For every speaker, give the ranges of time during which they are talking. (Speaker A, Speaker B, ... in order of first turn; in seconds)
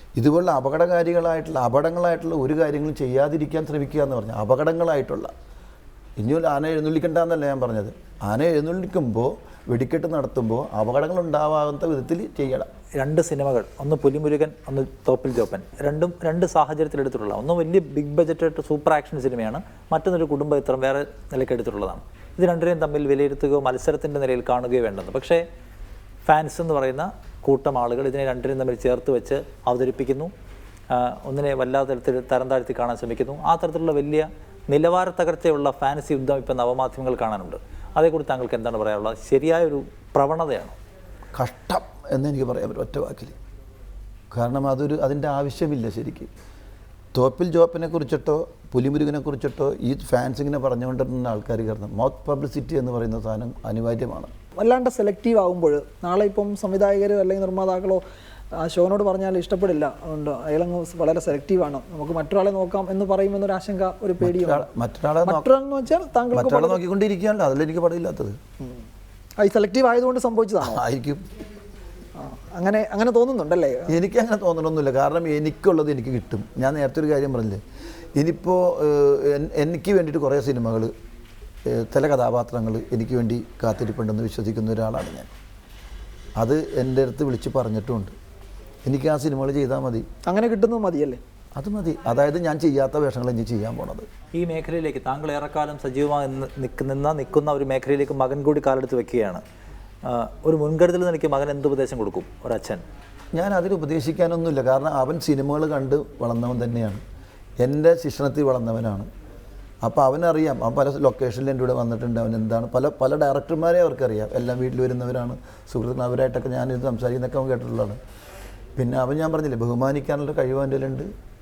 Speaker A: 0.2-5.3, 6.2-12.7, 41.3-43.4, 44.3-46.3, 47.1-54.3, 64.2-65.5, 66.3-68.4, 70.6-71.3, 73.9-77.6, 78.2-80.9, 81.7-85.3, 86.4-88.2, 88.8-90.1, 91.5-94.1, 103.3-107.0, 107.6-109.1, 109.8-118.0, 118.8-121.1
Speaker B: 13.0-25.4, 26.2-30.3, 30.9-40.7, 94.3-99.4, 100.0-102.8
Speaker C: 54.6-58.0, 58.5-64.7, 65.2-66.8, 69.4-70.8, 72.2-73.9, 90.2-91.2